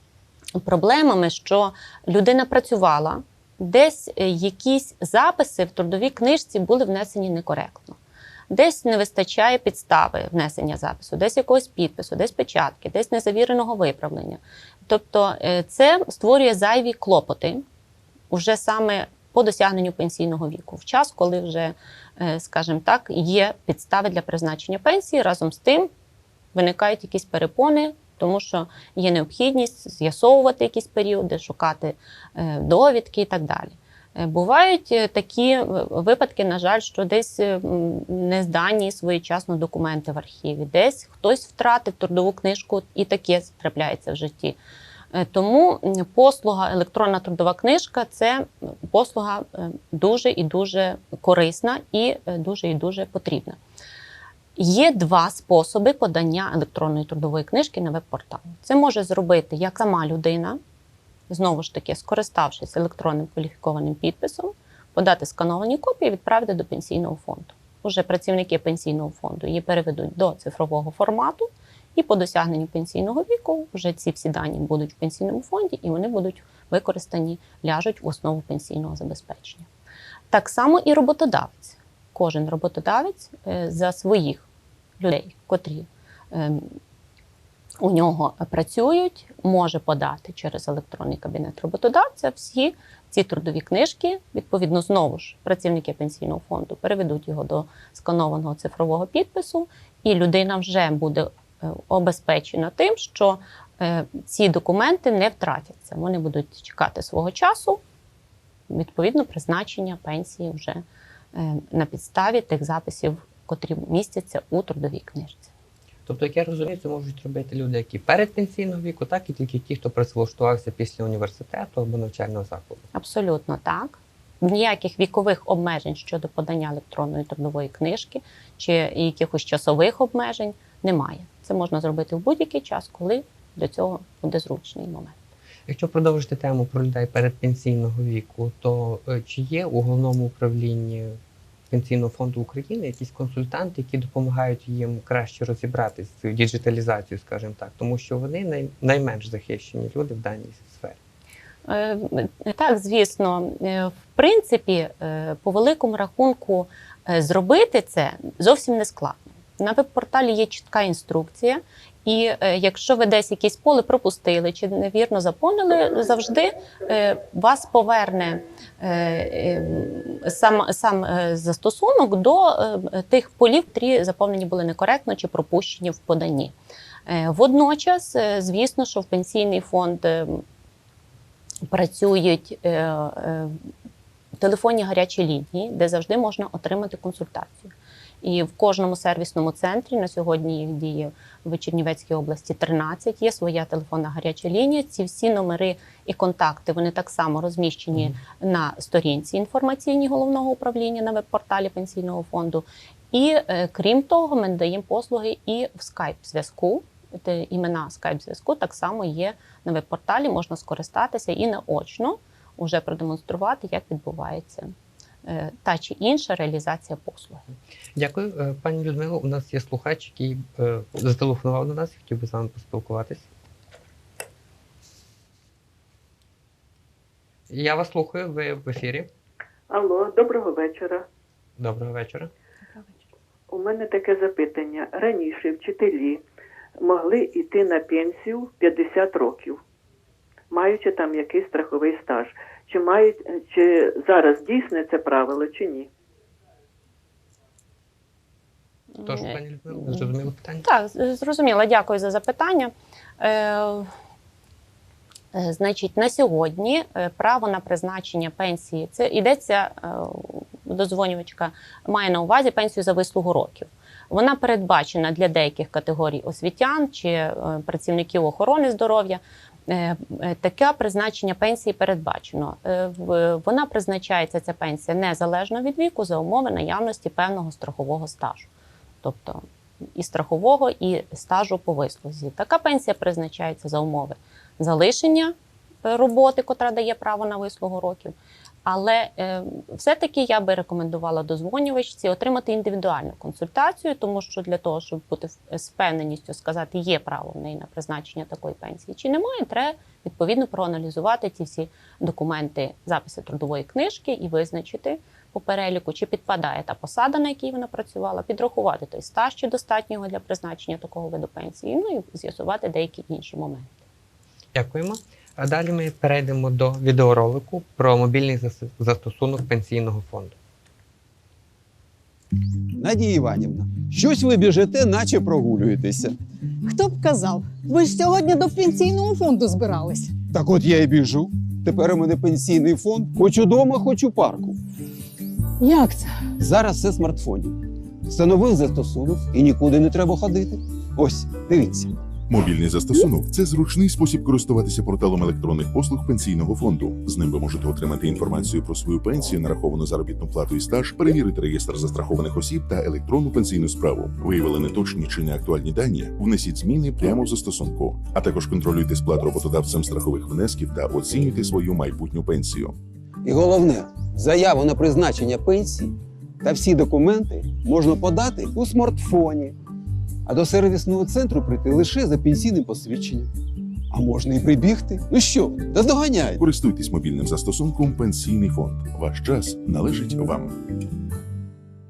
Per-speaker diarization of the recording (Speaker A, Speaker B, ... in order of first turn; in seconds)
Speaker A: 0.6-8.0, 8.5-17.6, 18.3-25.9, 26.5-44.6, 45.1-53.6, 54.5-60.6, 61.3-79.7, 80.3-84.5, 85.0-86.7, 87.8-107.8, 108.7-115.5, 122.9-135.2, 151.7-176.5, 177.1-180.4, 181.7-183.6, 184.4-214.7, 215.2-217.4, 249.0-249.3, 250.6-253.9, 255.3-278.5, 279.0-279.4, 279.9-313.8
Speaker B: 116.0-122.8, 135.7-141.2, 141.7-151.0, 217.9-223.3, 227.5-229.1, 231.6-232.3, 249.0-250.7, 314.5-320.4
Speaker C: 229.7-231.0, 233.5-236.2, 236.8-239.6, 240.5-245.9
Speaker D: 322.8-326.1, 330.3-334.6, 336.4-341.9, 363.2-369.6, 370.2-373.3, 373.9-376.4
Speaker E: 326.6-330.1, 335.6-336.3
Speaker F: 342.3-362.8, 376.4-380.6